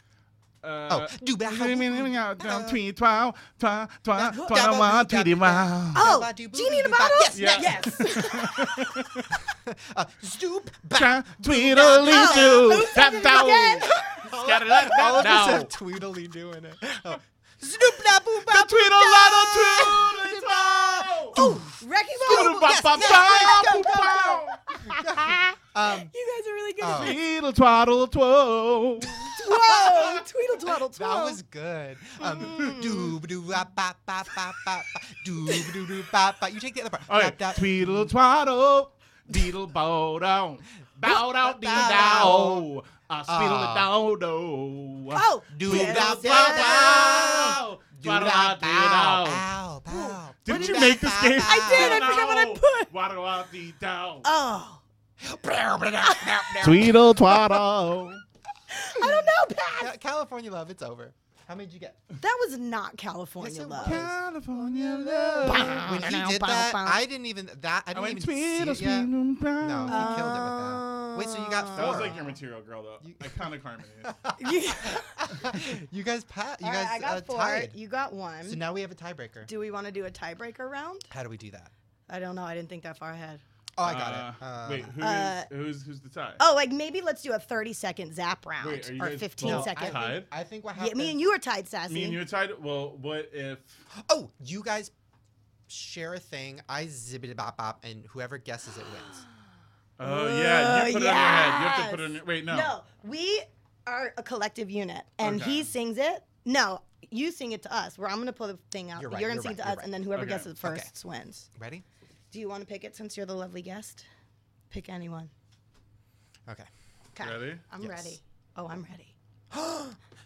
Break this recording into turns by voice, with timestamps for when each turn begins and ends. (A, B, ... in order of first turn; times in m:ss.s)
0:00.6-0:06.1 A
0:00.9-0:02.8 B
0:04.1-0:26.1 B
0:04.2-0:04.5 C
0:05.9-0:09.0 C
0:07.3-0:09.3 A
0:10.9-0:15.7 A
0:11.7-0:14.3 C
0:18.4-0:21.4 A
0:18.9-0:27.2 C
0:22.2-0:25.0 A
0:26.8-0:27.2 B
0:26.9-0:29.3 A
0:29.2-0:30.2 B
0:29.4-0:31.4 C
0:30.9-0:38.1 B
0:32.2-0:33.2 C
0:35.5-0:35.8 C
0:37.0-0:49.5 A
0:41.0-0:42.7 B
0:41.7-0:42.4 C
0:43.3-0:43.9 B
0:45.1-0:47.0 C
0:45.5-0:52.0 B
0:49.9-0:50.8 C
0:50.4-0:54.3 A
0:51.4-0:52.9 C
0:54.2-0:54.8 C
0:55.2-0:57.6 B
0:56.0-0:56.9 C
0:56.6-0:58.2 A
0:58.7-0:59.9 C
0:58.9-1:02.0 B
1:02.2-1:04.0 C
1:03.4-1:12.4 B
1:03.8-1:05.9 A
1:05.4-1:07.0 C
1:07.9-1:10.2 A
1:09.9-1:12.2 C
1:11.7-1:14.3 A
1:13.0-1:13.5 B
1:14.0-1:17.8 B
1:14.4-1:15.4 C
1:16.6-1:18.6 C
1:18.4-1:19.5 B
1:19.4-1:21.1 C
1:21.1-1:21.7 B
1:22.1-1:23.4 C
1:23.8-1:24.9 B
1:23.8-1:26.4 A
1:24.9-1:25.5 C
1:26.4-1:32.2 C
1:28.6-1:30.3 A
1:29.4-1:31.2 B
1:31.9-1:33.8 A
1:33.9-1:34.9 B
1:35.7-1:39.2 B
1:40.0-1:42.7 A
1:40.0-1:51.5 C
1:45.2-1:45.7 A
1:49.0-1:50.0 B
1:50.1-1:50.5 A
1:50.6-1:50.9 B
1:51.5-1:51.8 B
1:52.3-1:54.0 C
1:54.7-1:55.3 C
1:57.1-1:59.1 C
1:57.2-1:57.6 A
1:57.8-1:58.2 B
1:59.5-2:00.0 B